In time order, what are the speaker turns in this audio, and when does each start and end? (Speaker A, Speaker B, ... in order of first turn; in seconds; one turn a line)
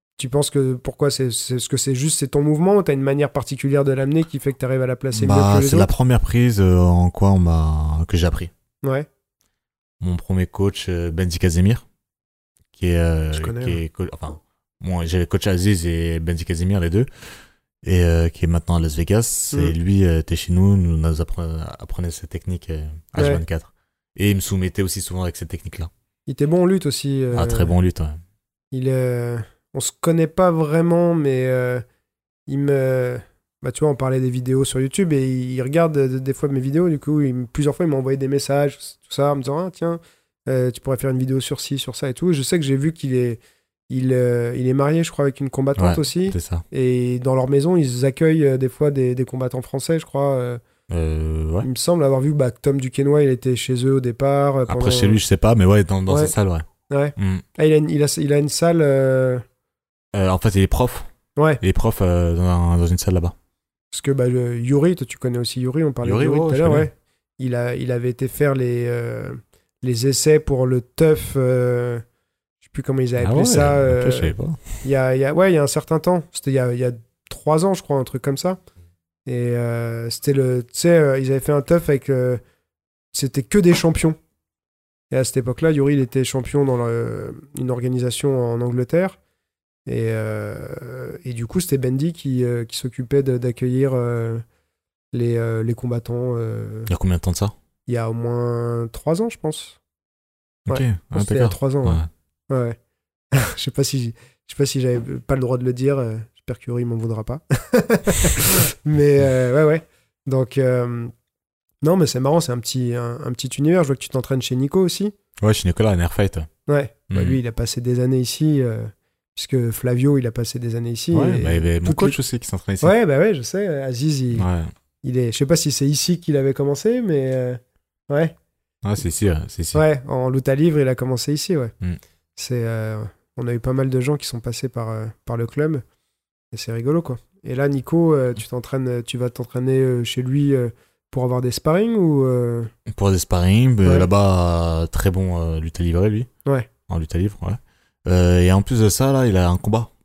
Speaker A: 0.2-5.9
Speaker B: 5.1-8.5
Speaker B: 10.0-11.8
Speaker B: 12.7-17.1
Speaker A: 13.3-13.8
Speaker B: 17.8-25.9
Speaker A: 23.2-23.4
Speaker A: 26.3-27.7
Speaker B: 27.3-28.2
Speaker A: 28.7-31.8
Speaker A: 32.5-50.6
Speaker B: 45.8-46.6
Speaker B: 50.9-51.7
Speaker A: 51.6-55.2
Speaker B: 54.7-56.6
Speaker A: 56.1-56.3
Speaker A: 56.9-59.4
Speaker B: 57.2-57.4
Speaker B: 60.1-61.1
Speaker B: 61.6-63.3
Speaker A: 63.9-72.0
Speaker B: 66.0-66.9
Speaker A: 72.6-78.6
Speaker B: 73.2-74.6
Speaker A: 79.2-82.4
Speaker A: 83.1-84.2
Speaker A: 85.1-89.2
Speaker A: 89.8-94.4
Speaker A: 95.1-96.9
Speaker B: 96.9-97.5
Speaker A: 97.9-99.8
Speaker B: 100.7-102.1
Speaker A: 100.7-102.8
Speaker A: 103.3-111.1
Speaker A: 111.8-115.1
Speaker B: 115.4-116.5
Speaker A: 116.7-122.2
Speaker B: 117.1-117.4
Speaker B: 121.1-122.9
Speaker A: 122.8-124.5
Speaker B: 124.3-124.7
Speaker A: 125.0-128.3
Speaker B: 128.8-129.8
Speaker A: 129.7-131.7
Speaker A: 132.3-135.8
Speaker A: 136.5-142.7
Speaker B: 142.9-146.3
Speaker B: 146.9-149.9